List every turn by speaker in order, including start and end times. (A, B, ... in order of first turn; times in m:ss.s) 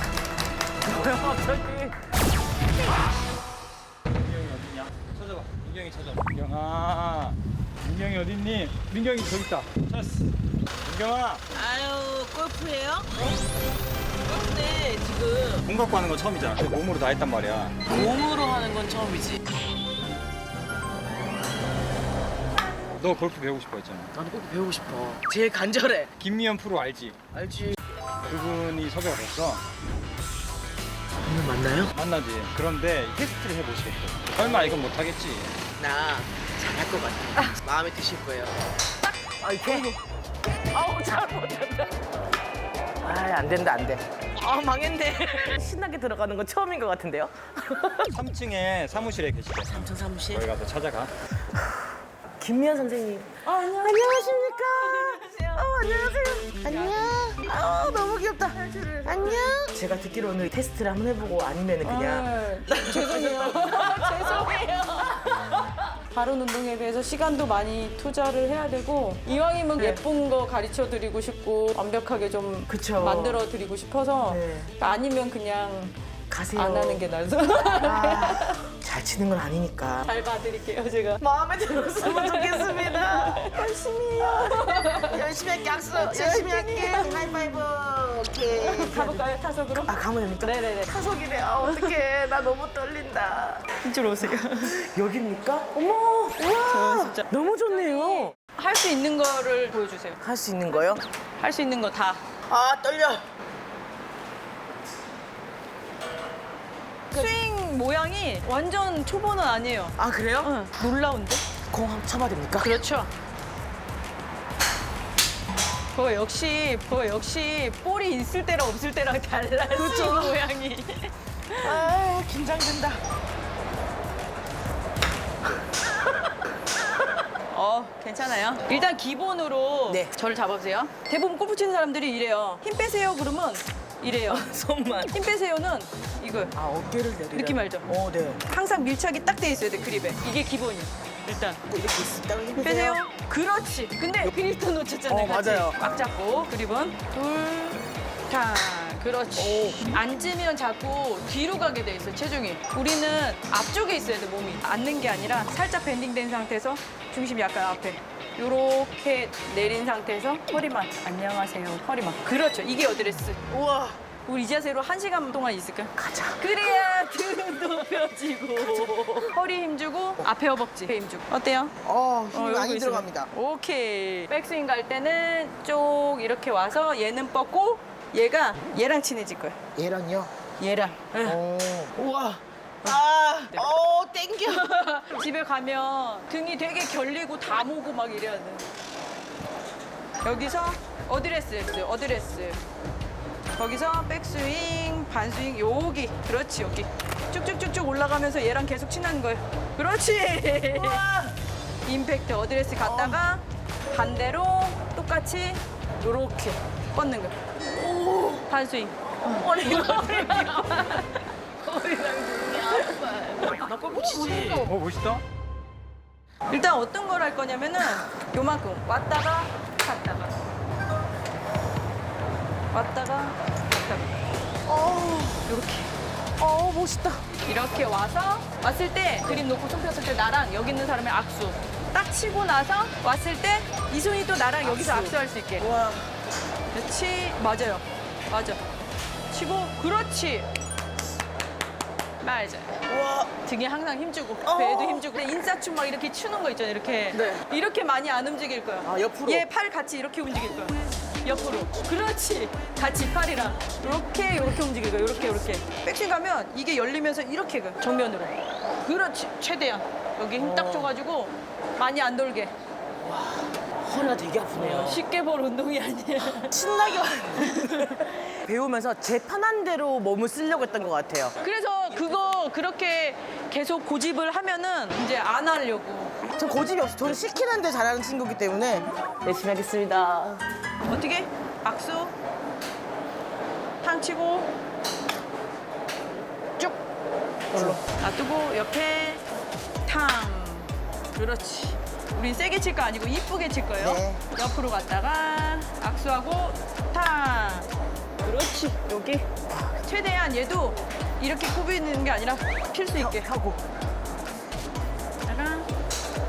0:00.8-0:01.9 A
0:04.2-0:11.4 B
0:11.5-0:13.3 A
0:14.3-0:15.6 A
0:15.6-0:17.8 B
0:17.9-0:19.4 A
0:23.0-0:24.1 B
0:24.1-0:26.1 A
0:26.2-0:27.2 B
0:27.3-0:27.8 A
0:28.3-0:29.6 B
0:31.2-0:31.9 A
0:31.9-0:35.5 B
0:34.4-0:34.8 A
0:35.8-0:38.5 A
0:39.4-0:39.9 A
0:39.6-0:40.0 C
0:40.4-0:42.0 A
0:43.0-0:48.1 A
0:48.1-0:51.1 B
0:49.6-0:50.4 A
0:51.5-1:05.3 A
0:53.4-0:57.3 C
0:58.5-0:59.8 C
1:01.8-1:16.0 C
1:09.8-1:10.0 A
1:12.7-1:13.4 A
1:14.2-1:14.7 A
1:16.3-1:20.1 A
1:16.5-1:18.7 C
1:20.0-1:21.2 C
1:21.2-1:33.7 A
1:21.9-1:25.2 C
1:25.7-1:27.3 C
1:28.6-1:30.9 C
1:31.6-1:32.0 C
1:33.8-1:34.8 C
1:34.6-1:38.3 A
1:36.5-1:40.2 C
1:40.2-1:41.0 A
1:41.4-1:42.2 C
1:42.5-1:43.2 A
1:47.1-1:51.4 C
1:50.0-1:50.5 A
1:51.7-1:52.8 A
1:52.6-1:53.1 C
1:55.9-2:01.9 C
1:59.7-2:00.5 A
2:01.6-2:03.0 A
2:07.5-2:14.5 C
2:09.9-2:10.1 A
2:14.3-2:15.2 A
2:15.1-2:16.5 C
2:16.5-2:18.4 A
2:17.3-2:17.8 C
2:18.5-2:21.6 C
2:21.7-2:23.0 A
2:22.6-2:43.4 C
2:25.1-2:25.8 A
2:29.3-2:29.8 A
2:43.5-2:44.0 A
2:44.2-2:51.7 C
2:46.0-2:46.5 A
2:48.8-2:49.2 A
2:51.8-2:53.3 A
2:52.3-2:59.6 C
2:59.7-3:00.3 A
3:00.6-3:01.4 C
3:01.2-3:04.7 A
3:04.4-3:08.6 C
3:10.2-3:12.6 C
3:13.5-3:21.0 C
3:20.7-3:21.3 A
3:21.8-3:27.3 C
3:22.8-3:23.3 A
3:27.7-3:28.5 A
3:28.5-3:31.2 C
3:29.2-3:31.0 A
3:31.6-3:34.7 A
3:32.6-3:33.0 C
3:33.5-3:34.6 C
3:34.6-3:35.2 B
3:36.5-3:40.3 C
3:42.7-3:44.1 C
3:44.6-3:45.4 A
3:45.5-3:45.9 C
3:46.4-3:47.2 A
3:47.4-3:55.7 C
3:54.6-3:56.1 A
3:56.7-3:58.6 C
3:59.3-4:00.5 C
4:02.2-4:02.8 C
4:02.9-4:03.3 A
4:03.4-4:22.5 C
4:04.4-4:05.0 A
4:07.1-4:07.4 A
4:08.8-4:09.4 A
4:20.4-4:20.9 A
4:23.0-4:25.0 A
4:24.6-4:26.6 C
4:26.4-4:31.3 A
4:27.4-4:28.3 C
4:31.4-4:36.2 C
4:36.3-4:40.4 A
4:40.8-4:42.1 C
4:43.8-4:44.5 C
4:47.5-4:47.8 A
4:47.5-4:49.2 C
4:49.8-4:57.7 C
4:53.8-4:54.2 A
4:58.2-5:03.3 C
5:03.0-5:03.6 A
5:05.2-5:05.7 C